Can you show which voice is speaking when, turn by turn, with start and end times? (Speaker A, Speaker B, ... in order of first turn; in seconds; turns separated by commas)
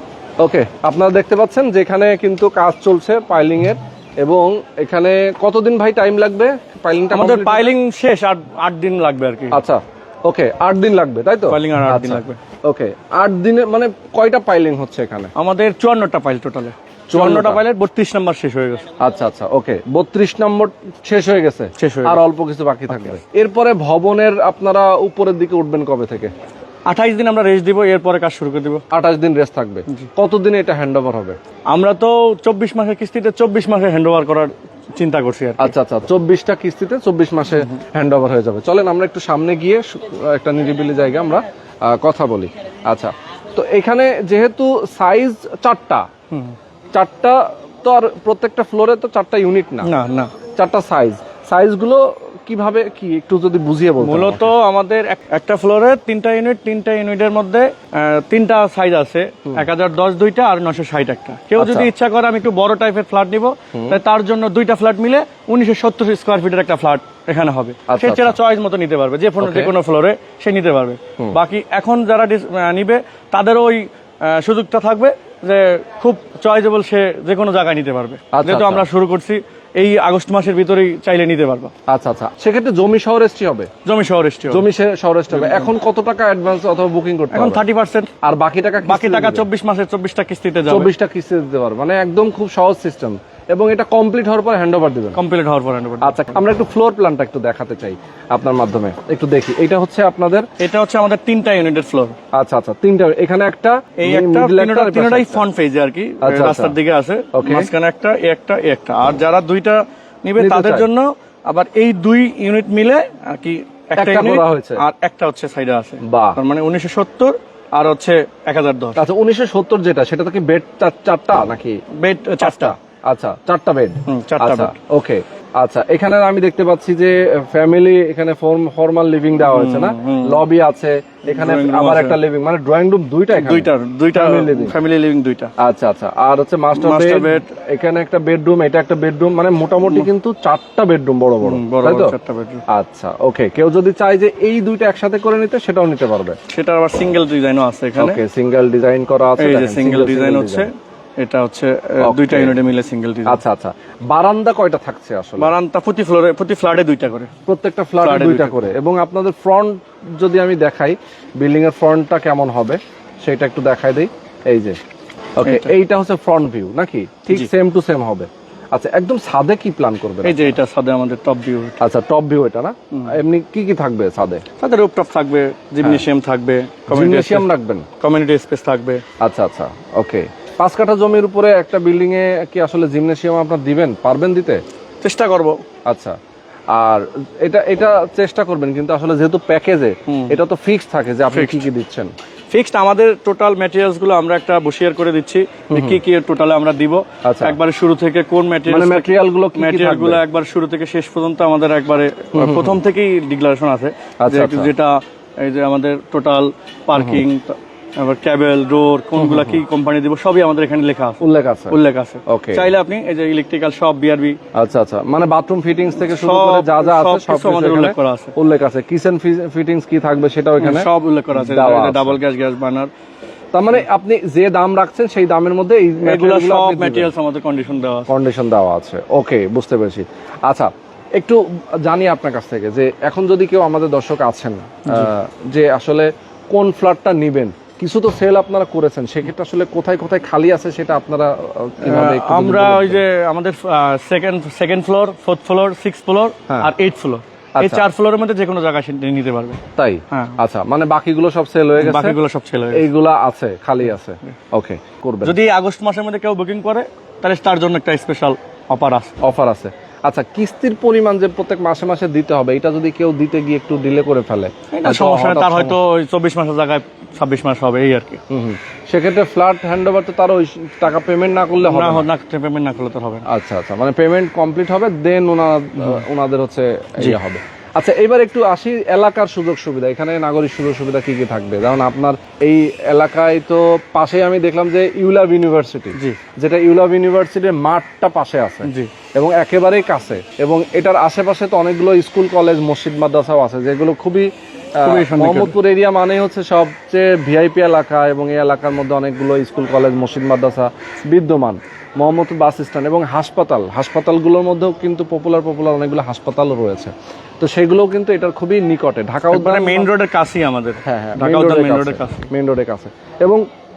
Speaker A: 0.4-7.7, Speaker B: 7.1-9.6, Speaker A: 9.5-15.3, Speaker B: 11.5-12.4, Speaker B: 15.3-18.8, Speaker A: 17.1-17.6, Speaker A: 19.0-26.3, Speaker B: 21.8-22.2, Speaker B: 22.9-23.2, Speaker B: 26.9-28.8, Speaker A: 28.9-31.4, Speaker B: 31.7-35.7, Speaker A: 35.6-46.0, Speaker B: 46.3-46.5, Speaker A: 46.9-49.9, Speaker B: 49.8-50.3, Speaker A: 50.5-54.5, Speaker B: 54.0-81.7, Speaker A: 61.5-61.9, Speaker A: 67.9-68.4, Speaker A: 69.4-69.7, Speaker A: 78.3-78.8, Speaker A: 81.9-83.7, Speaker B: 83.8-84.7, Speaker A: 84.5-87.6, Speaker B: 85.3-85.7, Speaker B: 87.3-88.1, Speaker A: 88.2-89.4, Speaker B: 88.8-90.9, Speaker A: 90.7-95.2, Speaker B: 95.1-96.4, Speaker A: 96.0-100.5, Speaker B: 100.6-102.2, Speaker A: 102.3-105.4, Speaker B: 104.0-119.0, Speaker A: 106.2-106.8, Speaker A: 107.3-107.7, Speaker A: 110.4-110.9, Speaker A: 114.0-114.8, Speaker A: 116.0-116.4, Speaker A: 119.0-121.8, Speaker B: 121.9-122.7, Speaker A: 122.4-134.8, Speaker B: 124.0-124.7, Speaker B: 129.4-130.4, Speaker B: 131.2-132.2, Speaker B: 133.3-135.5, Speaker A: 135.6-142.1, Speaker B: 136.7-137.5, Speaker B: 139.8-140.1, Speaker B: 141.4-142.6, Speaker A: 142.7-146.4, Speaker B: 146.5-148.2, Speaker A: 148.0-150.7, Speaker B: 149.4-153.4, Speaker A: 152.0-152.6, Speaker A: 153.2-155.5, Speaker B: 155.4-157.3, Speaker A: 157.4-164.8, Speaker B: 158.0-158.6, Speaker A: 165.4-170.5, Speaker B: 165.4-165.7, Speaker B: 170.2-171.8, Speaker A: 171.8-174.4, Speaker B: 174.6-177.5, Speaker A: 176.9-177.9, Speaker B: 178.0-179.0, Speaker A: 179.2-184.6, Speaker B: 185.0-185.6, Speaker A: 185.9-186.2, Speaker A: 186.7-192.1, Speaker B: 190.1-190.4, Speaker B: 191.3-191.7, Speaker B: 192.5-214.4, Speaker A: 195.7-196.0, Speaker A: 197.2-197.6, Speaker A: 198.7-200.2, Speaker A: 202.3-202.8, Speaker A: 204.2-204.7, Speaker A: 206.9-207.2, Speaker A: 209.2-209.6, Speaker A: 211.2-212.7, Speaker A: 214.5-222.2, Speaker B: 216.0-218.3, Speaker B: 220.6-222.9, Speaker A: 223.5-227.1, Speaker B: 226.0-228.1, Speaker A: 228.1-243.0, Speaker B: 241.8-249.6, Speaker A: 247.6-247.8, Speaker A: 249.8-252.2, Speaker B: 250.1-250.4, Speaker B: 251.8-252.9, Speaker A: 252.7-255.4, Speaker B: 255.2-259.1, Speaker A: 259.2-265.7, Speaker B: 264.7-268.2, Speaker A: 268.3-272.1, Speaker B: 271.6-273.2, Speaker A: 273.3-309.9, Speaker B: 288.6-288.9, Speaker B: 294.8-295.6, Speaker B: 309.3-312.3, Speaker A: 310.8-313.4